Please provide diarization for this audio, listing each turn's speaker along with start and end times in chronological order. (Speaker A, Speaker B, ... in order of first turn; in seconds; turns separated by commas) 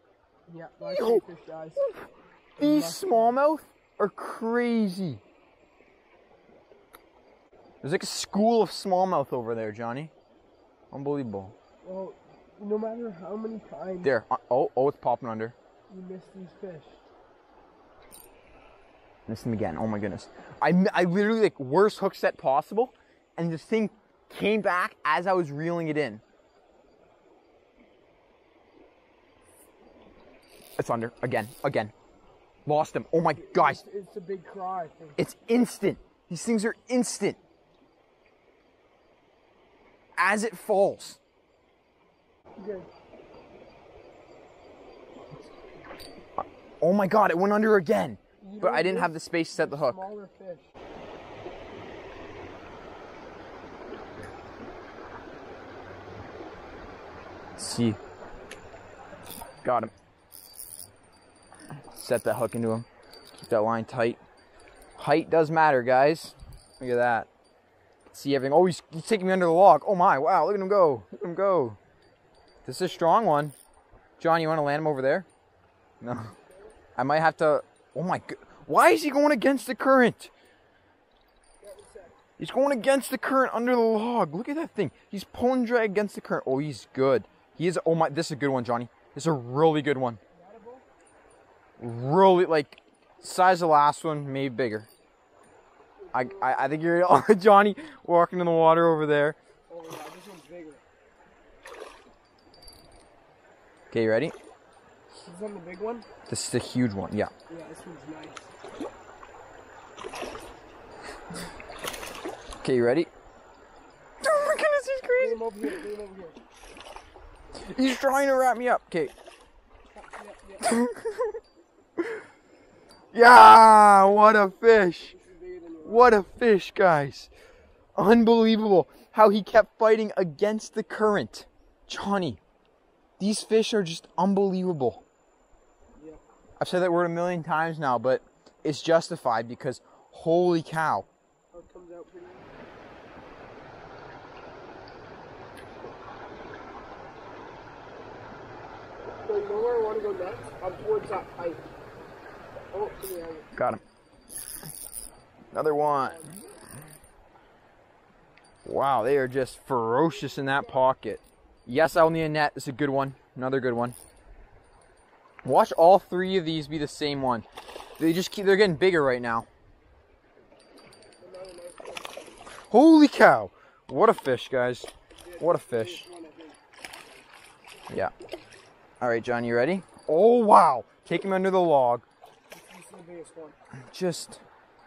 Speaker A: 0.5-1.9, Speaker B: 0.9-1.2, Speaker B: 1.8-5.2, Speaker A: 2.6-3.4, Speaker B: 7.8-10.1, Speaker B: 10.9-11.6, Speaker A: 11.8-14.1, Speaker B: 14.0-15.6, Speaker A: 15.9-17.0, Speaker B: 19.3-26.2, Speaker B: 30.8-31.9, Speaker B: 32.7-33.8, Speaker A: 33.4-35.2, Speaker B: 35.2-37.4, Speaker B: 40.2-41.2, Speaker A: 42.6-42.9, Speaker B: 46.4-50.0, Speaker A: 48.4-50.7, Speaker B: 57.6-58.0, Speaker B: 59.6-59.9, Speaker B: 61.9-62.9, Speaker B: 63.4-64.2, Speaker B: 65.0-67.3, Speaker B: 68.1-71.8, Speaker B: 72.7-73.5, Speaker B: 74.2-75.3, Speaker B: 76.0-76.3, Speaker B: 77.0-80.3, Speaker A: 81.6-82.2, Speaker B: 82.4-90.2, Speaker A: 90.3-90.8, Speaker B: 91.8-94.9, Speaker A: 96.0-96.8, Speaker B: 96.1-99.4, Speaker A: 99.7-100.8, Speaker B: 103.9-104.3, Speaker A: 105.3-106.1, Speaker B: 106.3-107.3, Speaker A: 107.5-108.5, Speaker B: 112.6-113.1, Speaker B: 114.2-115.5, Speaker A: 115.2-116.4, Speaker B: 117.6-119.1, Speaker A: 120.0-120.7, Speaker B: 120.6-121.4, Speaker B: 123.1-125.2, Speaker A: 125.1-126.2, Speaker B: 125.8-127.3, Speaker B: 128.0-132.4, Speaker B: 133.2-135.0, Speaker A: 136.0-136.2, Speaker B: 136.6-141.1, Speaker A: 141.5-142.5, Speaker A: 149.2-151.6, Speaker A: 152.7-153.5, Speaker B: 153.6-153.8, Speaker B: 155.5-156.2, Speaker A: 155.9-156.5, Speaker B: 158.7-164.0, Speaker A: 160.1-160.8, Speaker B: 165.4-167.5, Speaker B: 168.0-169.5, Speaker A: 171.2-172.3, Speaker B: 172.7-176.1, Speaker A: 175.2-176.6, Speaker B: 179.0-182.1, Speaker A: 182.5-183.6, Speaker B: 183.9-184.4